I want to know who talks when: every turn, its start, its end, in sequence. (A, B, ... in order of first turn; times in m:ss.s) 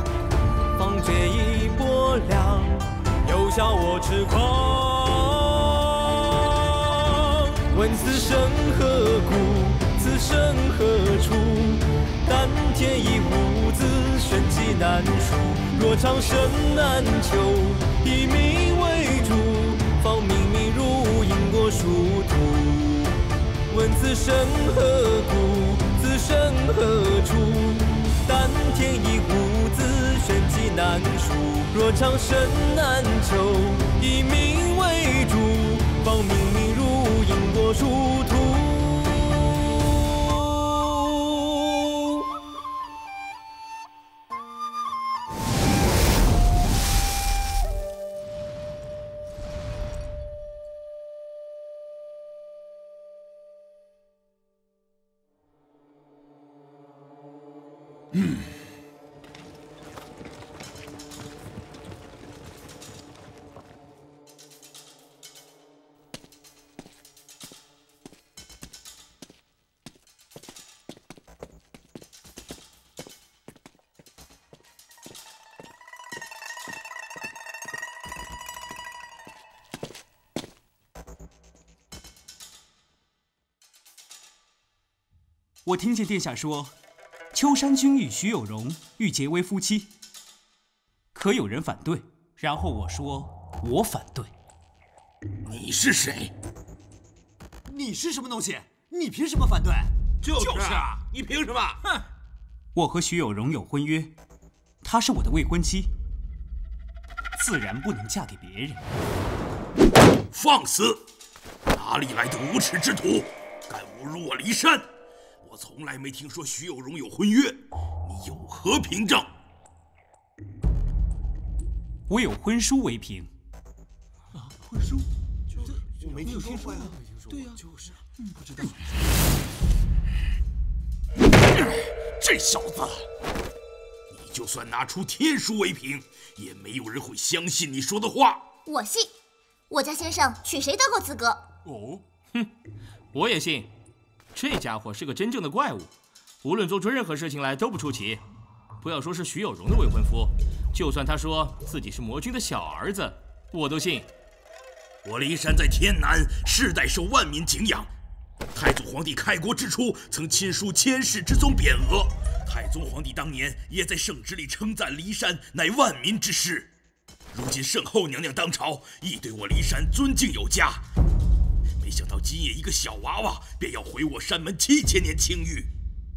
0:00.8-0:23.1 A
0:23.7-0:39.2 A
0:40.8-0:41.5 A
1:25.6-1:26.7 B
1:27.3-1:29.9 B
1:31.1-1:34.3 B
1:35.5-1:36.3 C
1:37.8-1:39.7 D
1:40.2-1:41.5 C
1:40.3-1:40.9 D
1:42.8-1:44.2 B
1:44.8-1:45.9 B
1:47.4-1:48.8 B
1:50.3-1:51.0 C
1:51.7-1:54.8 C
1:55.4-1:59.3 C
2:02.1-2:03.3 B
2:06.2-2:06.8 D
2:06.5-2:06.8 C
2:12.2-2:12.9 C
2:14.1-2:18.4 C
2:18.7-2:19.1 E
2:19.7-2:21.4 E
2:23.1-2:23.7 F
2:24.4-2:25.9 F
2:26.4-2:28.2 F
2:28.8-2:34.1 F
2:35.0-2:37.9 C
2:38.6-2:46.7 C
2:47.3-2:50.8 C
2:51.8-2:55.7 C